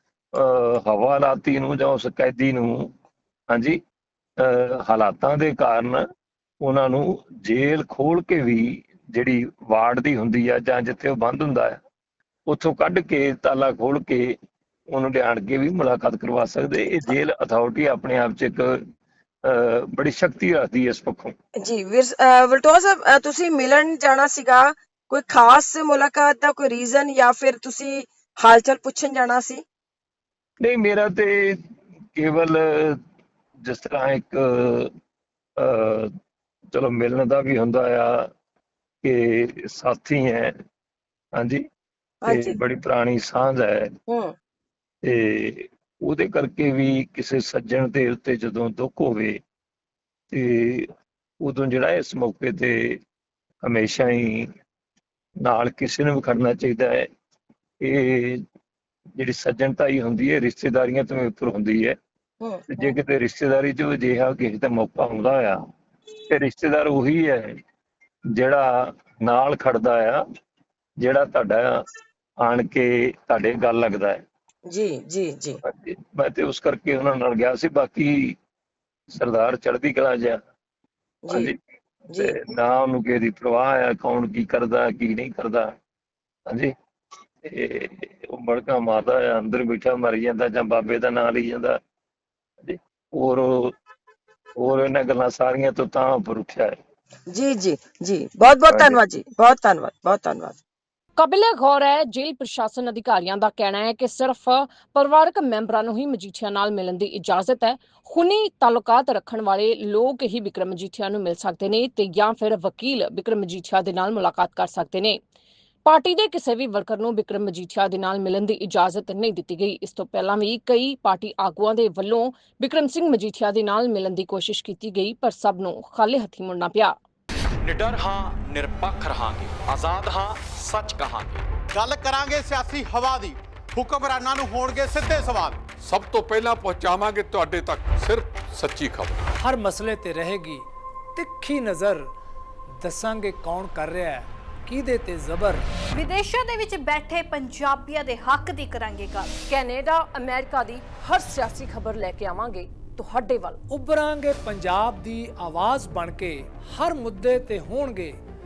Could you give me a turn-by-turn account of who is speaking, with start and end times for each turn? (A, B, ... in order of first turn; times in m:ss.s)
0:00.4-0:02.9 A
0:03.5-0:03.8 A
0:04.4-0:06.0 A
0:06.6-0:11.8 A
0:12.5-0:14.4 A
0:14.9-0:18.8 A
0:19.5-0:21.3 A
0:21.6-0:29.6 B
0:30.6-0:31.6 A
0:32.2-0:33.0 A
0:33.6-0:34.9 A
0:35.6-0:36.1 A
0:36.7-0:38.3 A
0:39.0-0:40.5 A
0:41.4-0:41.6 A
0:42.2-0:42.6 B
0:42.3-0:43.9 A
0:44.1-0:44.3 B
0:45.0-0:49.4 A
0:50.3-0:50.9 A
0:51.4-0:53.0 A
0:53.6-0:54.5 A
0:55.4-0:57.1 A
0:57.8-0:58.4 A
0:59.2-1:02.0 A
1:02.4-1:02.9 B
1:02.7-1:05.6 A
1:06.3-1:07.5 A
1:08.3-1:10.2 A
1:11.0-1:11.8 A
1:12.4-1:14.2 A
1:14.7-1:15.6 B
1:15.6-1:18.4 A
1:19.2-1:20.4 A
1:21.3-1:21.6 A
1:22.2-1:25.7 A
1:26.5-1:26.7 A
1:27.5-1:31.8 A
1:32.6-1:33.7 A
1:34.6-1:36.8 A
1:37.3-1:40.6 B
1:38.7-1:39.0 A
1:41.2-1:55.2 C
1:55.8-2:07.0 C
2:07.6-2:11.5 D
2:11.7-2:15.8 E
2:15.9-2:19.2 F
2:19.4-2:22.1 G
2:22.8-2:25.6 G
2:25.9-2:29.4 H
2:29.5-2:33.6 C
2:33.7-2:38.2 G